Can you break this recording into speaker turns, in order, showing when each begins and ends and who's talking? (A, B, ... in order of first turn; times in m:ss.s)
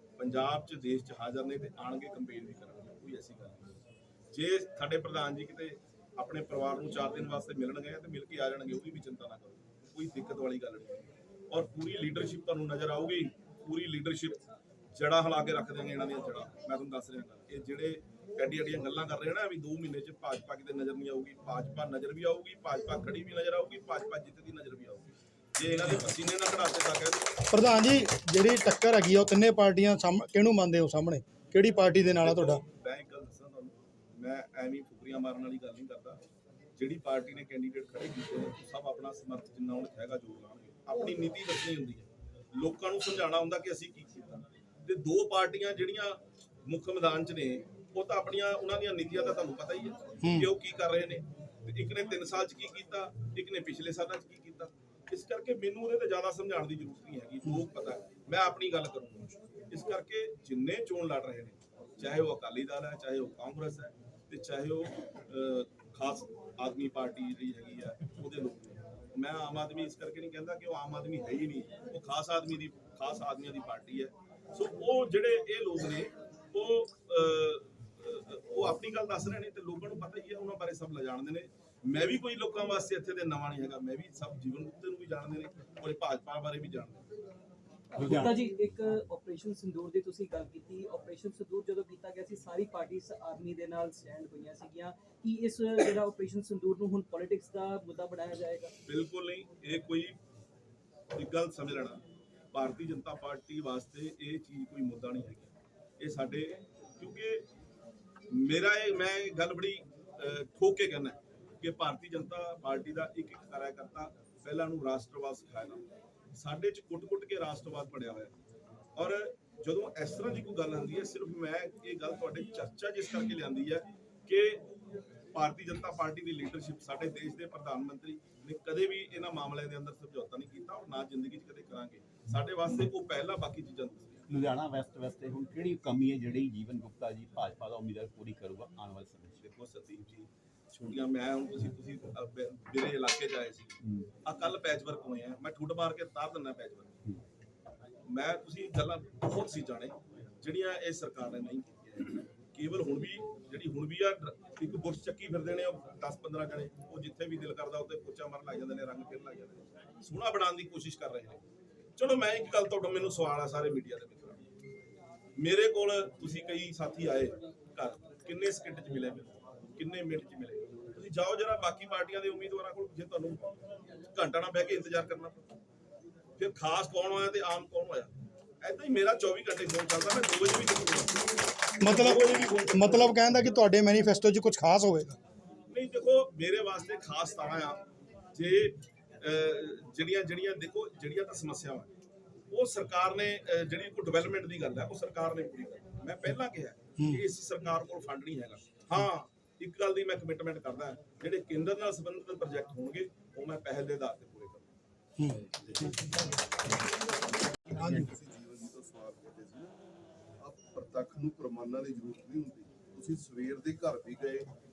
0:00.2-0:03.7 A
0:04.3-0:27.4 A
0:27.5-0:32.6 B
0:32.2-0:36.2 A
0:36.8-1:27.1 A
0:50.2-0:50.5 B
1:27.9-1:38.7 C
1:28.0-1:28.4 D
1:38.8-1:40.2 A
1:41.1-1:47.4 A
1:48.3-1:58.3 A
1:59.0-2:04.6 A
2:05.3-2:14.2 A
2:14.3-2:19.5 D
2:19.4-2:27.0 A
2:28.0-2:41.4 A
2:42.0-2:44.4 A
2:45.4-2:55.4 A
2:56.4-3:01.3 A
3:01.8-3:05.2 B
3:01.8-3:03.1 A
3:05.7-3:11.9 A
3:12.5-3:24.7 A
3:25.2-3:25.9 B
3:27.7-3:29.7 E
3:27.8-3:28.0 B
3:30.4-3:34.5 E